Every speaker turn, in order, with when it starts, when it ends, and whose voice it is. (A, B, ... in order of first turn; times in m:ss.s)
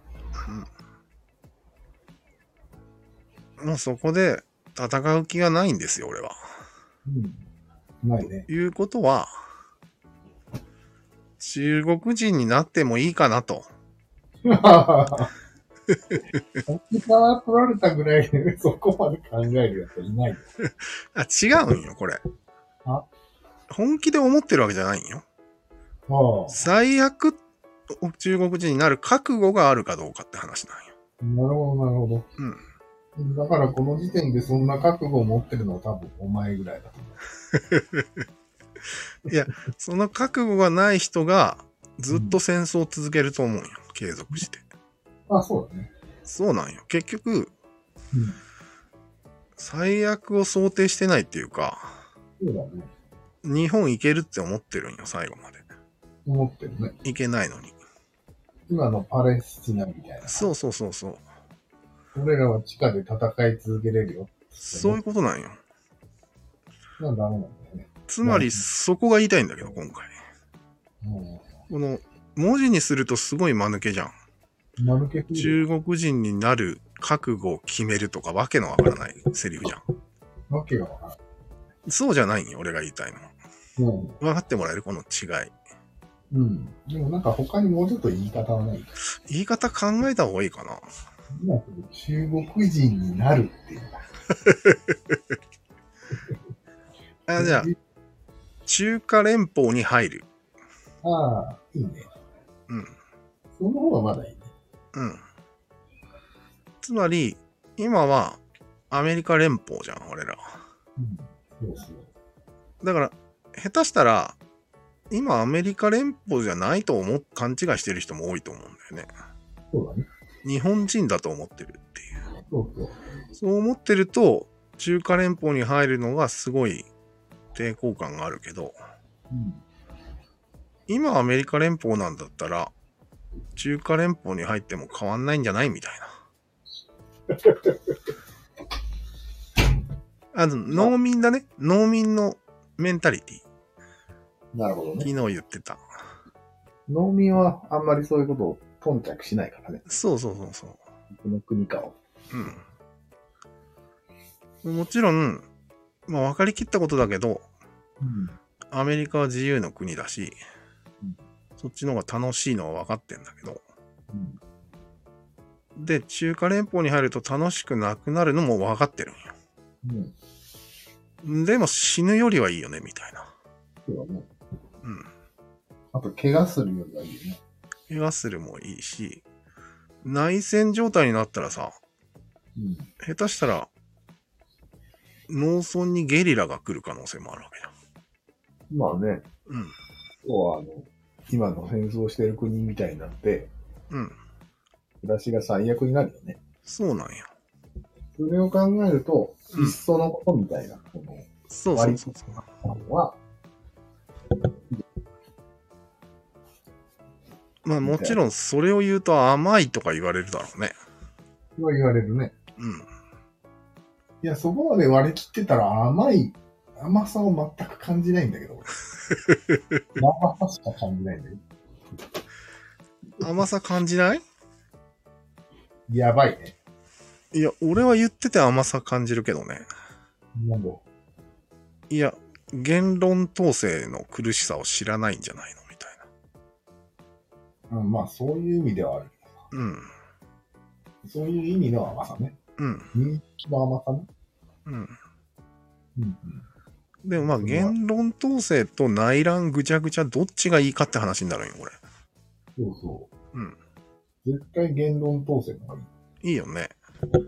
0:03.6-0:06.4 A
0:07.1-0:07.4 B
0:08.0-0:08.5 B
0:08.2-0:09.3 A
0:11.4-0:13.7 A
0:14.4-0:15.3 B
0:15.9-0:16.2 A
0:16.6-0:20.5 B
0:20.6-0:22.2 A
0:23.7-0:25.2 A
0:26.1-0:26.6 B
0:26.5-0:27.4 A
0:27.9-0:30.9 A
0:31.2-0:32.3 B
0:33.2-0:37.2 B
0:37.7-0:38.2 A
0:39.2-0:44.6 A
0:45.3-0:45.9 B
0:46.2-0:47.5 A
0:49.6-0:52.0 A
0:52.4-0:52.9 B
0:53.4-0:55.6 A
0:56.2-0:56.9 B
0:57.0-0:57.8 A
0:58.7-1:00.5 B
1:00.3-1:01.2 A
1:02.1-1:05.0 B
1:04.6-1:05.6 A
1:07.0-1:08.6 B
1:08.1-1:10.1 A
1:11.0-1:11.4 B
1:11.7-1:14.1 A
1:14.8-1:15.6 B
1:15.3-1:19.8 A
1:20.5-1:21.2 B
1:21.9-1:23.3 A
1:23.8-1:24.2 B
1:24.2-1:25.5 A
1:26.3-1:28.9 B
1:29.3-1:30.9 A
1:31.3-1:34.0 B
1:34.4-1:35.2 A
1:37.3-1:37.7 A
1:37.4-1:37.8 B
1:38.7-1:40.2 A
1:41.0-1:42.1 B
1:43.6-1:44.5 B
1:44.9-1:45.2 A
1:46.8-1:50.5 A
1:51.0-1:52.1 B
1:52.8-1:54.4 A
1:55.1-1:59.1 A
1:59.7-2:00.1 B
2:00.4-2:02.1 A
2:02.5-2:02.9 B
2:03.4-2:06.9 A
2:07.5-2:08.8 A
2:09.3-2:09.6 B
2:10.9-2:12.7 A
2:13.6-2:16.2 A
2:20.3-2:23.4 A
2:24.5-2:25.1 B
2:25.0-2:25.8 A
2:26.9-2:29.8 B
2:29.9-2:30.8 A
2:31.1-2:32.0 B
2:32.3-2:32.6 A
2:34.6-2:35.5 A
2:36.1-2:37.4 A
2:38.0-2:38.4 B
2:38.7-2:40.4 A
2:41.6-2:43.6 A
2:44.1-2:44.4 B
2:45.8-2:49.4 A
2:49.8-2:50.1 B
2:51.2-2:53.3 A
2:53.9-2:54.3 B
2:54.8-2:55.1 A
2:55.9-2:57.4 B
2:57.9-2:59.2 A
3:00.0-3:01.8 A
3:02.6-3:02.9 B
3:03.0-3:03.7 A
3:05.3-3:07.7 A
3:08.7-3:09.2 B
3:09.5-3:09.7 A
3:10.2-3:13.5 B
3:13.9-3:14.2 A
3:15.0-3:16.4 B
3:16.6-3:17.3 A
3:18.1-3:23.2 B
3:21.5-3:22.4 A
3:27.6-3:30.8 A
3:27.8-3:28.2 B
3:31.6-3:32.3 B
3:32.6-3:32.9 A
3:34.2-3:38.8 B
3:39.2-3:39.8 A
3:40.0-3:41.4 B
3:43.2-3:44.2 A
3:45.9-3:46.5 B
3:47.3-3:49.7 A
3:50.4-3:50.8 B
3:51.9-3:56.1 A
3:57.7-3:59.4 B
3:59.5-3:59.9 A
4:01.0-4:02.4 B
4:02.6-4:02.9 A
4:02.9-4:04.1 B
4:04.6-4:05.0 A
4:06.0-4:06.4 B
4:07.0-4:11.8 A
4:07.3-4:07.8 B
4:12.6-4:13.1 B
4:14.2-4:15.9 B
4:16.2-4:16.7 A